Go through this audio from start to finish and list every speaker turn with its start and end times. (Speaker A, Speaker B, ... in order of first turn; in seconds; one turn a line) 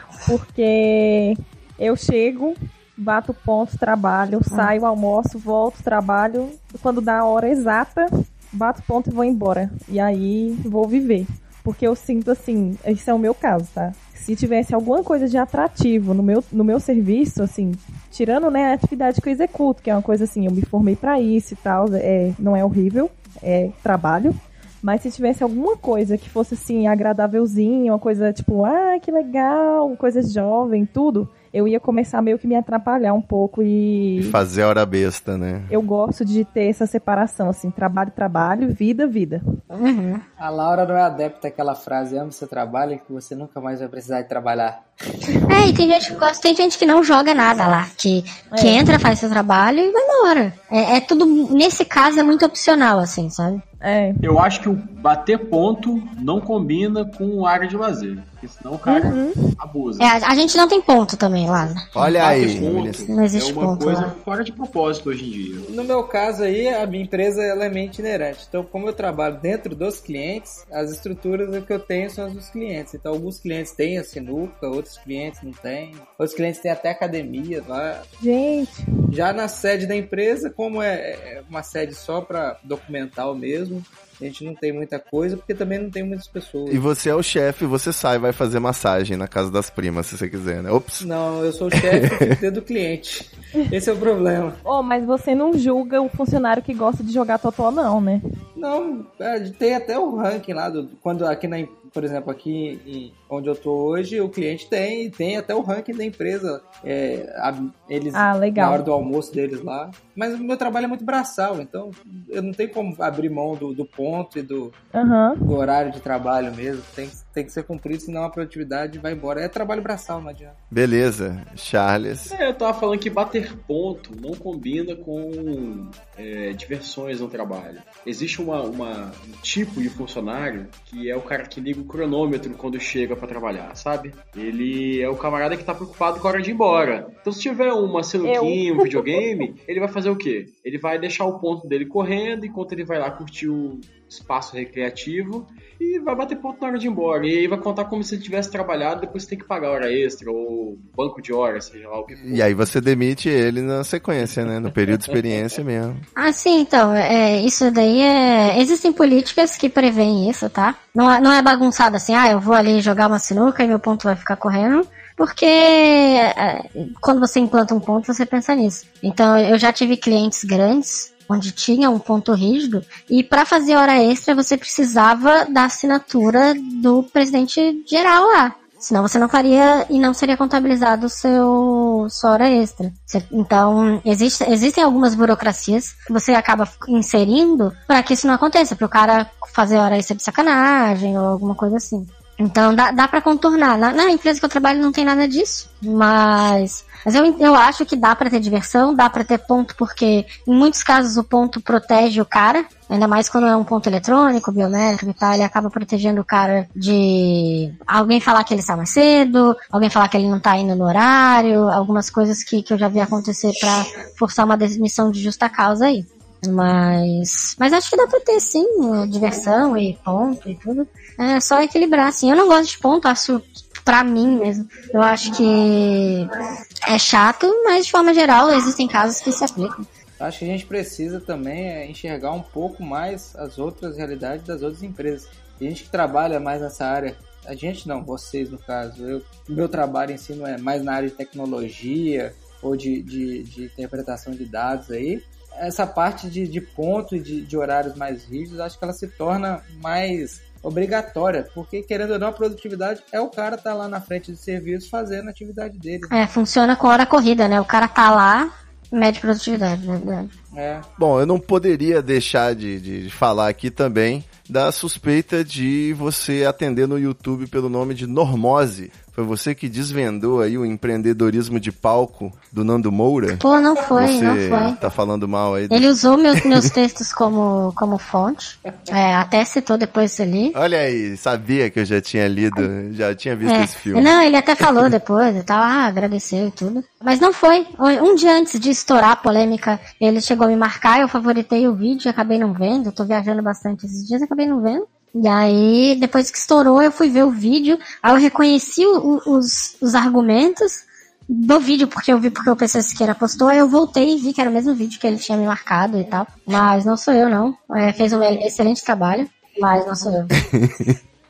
Speaker A: 0.2-34.3
Speaker B: 34.2-35.7
Speaker A: 35.7-39.4
Speaker C: 39.7-40.2
Speaker D: 40.4-44.8
Speaker C: 45.5-53.6
Speaker A: 48.5-48.9
Speaker A: 53.8-54.2
Speaker E: 54.2-60.1
Speaker A: 58.9-59.4
Speaker C: 60.0-61.9
Speaker B: 61.9-63.1
Speaker E: 62.0-65.7
Speaker C: 63.1-64.1
Speaker D: 65.7-78.1
Speaker A: 78.2-78.8
Speaker D: 79.1-86.8
Speaker B: 86.7-91.0
Speaker D: 91.0-94.6
Speaker B: 91.8-92.3
Speaker A: 94.6-98.2
Speaker D: 98.5-114.8
Speaker A: 108.1-108.8
Speaker A: 114.9-115.5
Speaker D: 115.5-120.6
Speaker B: 120.7-122.3
Speaker E: 122.3-152.6
Speaker A: 138.2-139.2
Speaker B: 152.1-156.0
Speaker E: 155.0-155.3
Speaker C: 156.2-226.3
Speaker C: 226.9-229.8
Speaker D: 230.2-256.1
Speaker C: 256.1-260.3
Speaker D: 260.5-260.9
Speaker B: 261.0-273.4
Speaker C: 273.4-274.8
Speaker B: 273.9-275.9
Speaker C: 275.7-280.6
Speaker B: 280.5-284.1
Speaker C: 283.4-310.3
Speaker B: 310.4-310.9